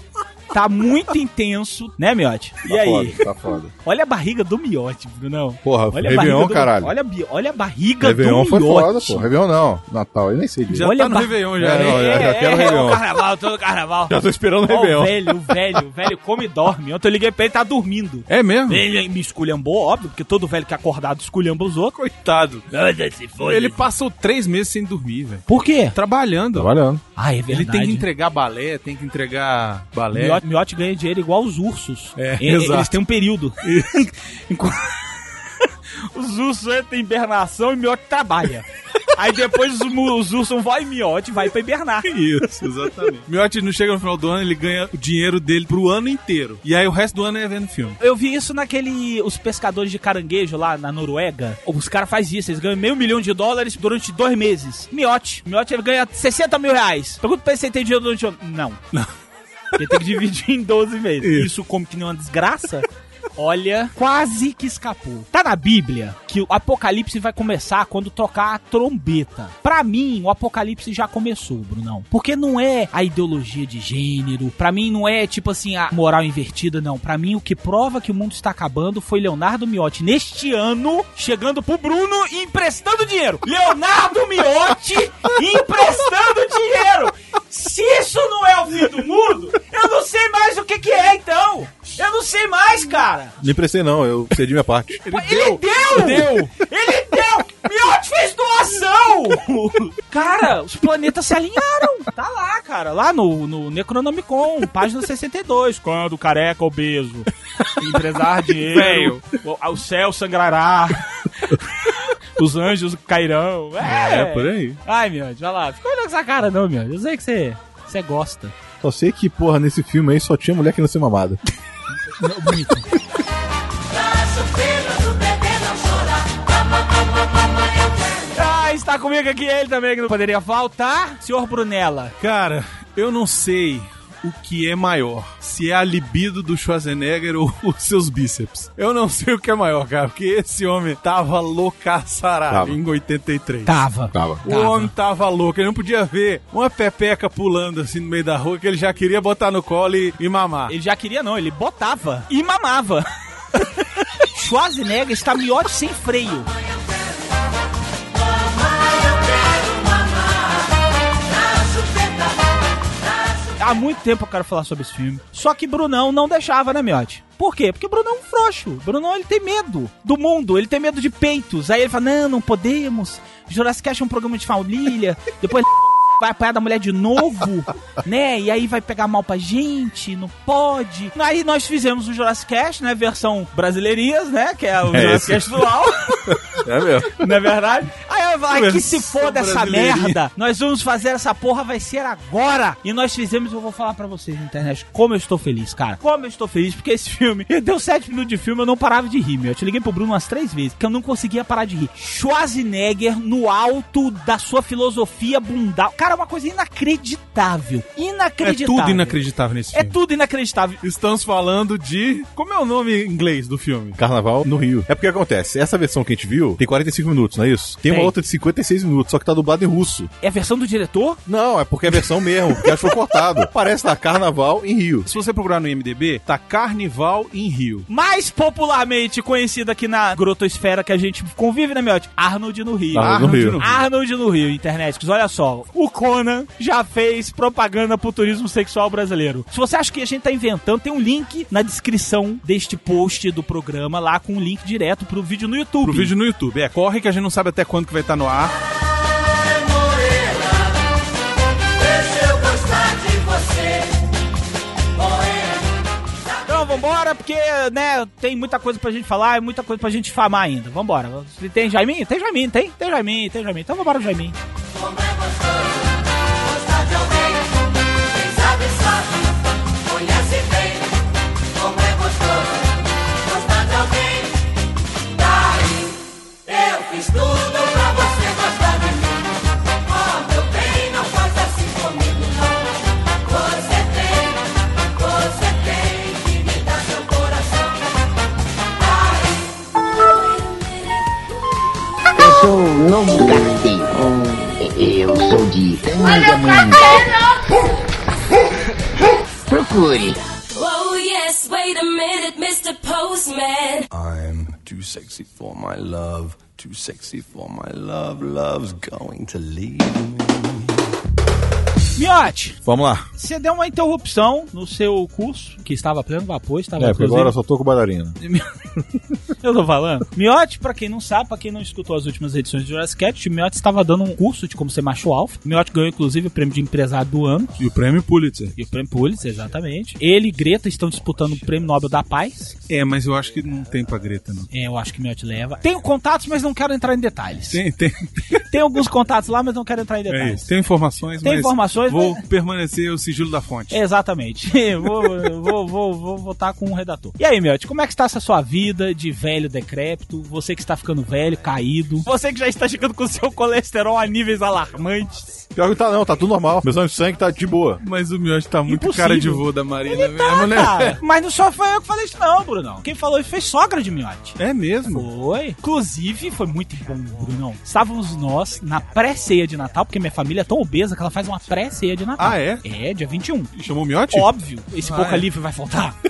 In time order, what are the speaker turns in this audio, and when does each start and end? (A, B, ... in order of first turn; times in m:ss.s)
0:00.5-0:03.2 A
0:02.6-0:03.7 B
0:03.8-0:09.3 A
0:05.6-0:06.9 B
0:08.0-0:10.9 B
0:10.7-0:12.2 C
0:10.8-0:22.0 A
0:11.6-0:13.0 B
0:14.1-0:15.5 B
0:18.3-0:18.8 C
0:22.0-0:22.7 C
0:22.7-0:23.9 A
0:23.4-0:26.8 C
0:25.5-0:26.0 A
0:26.6-0:27.0 B
0:27.2-0:28.1 A
0:27.5-0:30.4 C
0:30.1-0:42.1 A
0:32.2-0:33.0 C
0:33.6-0:34.0 C
0:42.1-0:48.0 C
0:48.0-0:58.8 A
0:59.8-1:33.4 A
1:01.2-1:01.5 C
1:33.4-1:35.1 B
1:35.1-1:36.5 C
1:35.1-1:58.5 A
1:48.6-1:49.3 C
1:53.8-1:54.8 C
1:58.8-2:01.4 B
2:02.2-2:02.9 A
2:08.3-2:12.2 A
2:12.2-2:23.9 C
2:22.5-2:22.8 B
2:23.7-2:24.9 A
2:24.1-2:24.4 B
2:24.4-2:30.7 C
2:30.7-2:36.5 A
2:43.6-3:06.6 A
3:04.9-3:05.5 B
3:04.9-3:05.4 C
3:06.6-3:07.2 B
3:07.2-3:29.2 A
3:08.5-3:10.2 C
3:28.4-3:30.0 C
3:29.7-3:30.8 A
3:30.8-3:34.0 C
3:34.0-3:40.1 B
3:37.9-3:38.1 A
3:40.2-3:41.2 A
3:41.3-3:45.1 B
3:41.9-3:43.0 A
3:45.1-3:47.9 C
3:47.9-4:06.1 A
3:52.9-3:53.6 B
3:53.0-3:53.8 C
4:05.8-4:08.6 C
4:16.5-4:24.4 A
4:26.7-4:27.2 D
4:28.4-4:28.9 D
4:30.0-4:30.7 D
4:31.7-4:32.5 D
4:33.4-4:34.0 D
4:36.5-4:38.9 D
4:40.0-4:42.3 D
4:43.3-4:44.3 D
4:45.2-4:47.6 D
4:52.1-4:57.2 E
4:56.0-4:57.2 D
4:59.5-5:00.2 E
5:00.5-5:03.9 D
5:03.9-5:10.9 F
5:12.0-5:12.6 A
5:12.6-5:13.1 B
5:13.2-5:17.3 A
5:16.8-5:18.2 B
5:18.2-5:18.5 A
5:19.4-5:27.5 A
5:27.6-5:28.5 C
5:28.6-5:32.5 A
5:32.7-5:34.5 C
5:34.5-5:37.6 A
5:37.5-5:38.4 C
5:38.5-5:40.5 A
5:40.1-5:43.8 C
5:41.2-5:42.2 A
5:43.7-5:55.4 A
5:55.6-5:57.8 B
5:57.8-6:01.0 C
5:58.7-6:13.5 A
6:04.4-6:05.1 C
6:12.2-6:12.6 C
6:13.6-6:14.3 C
6:14.1-6:16.0 A
6:14.8-6:15.3 C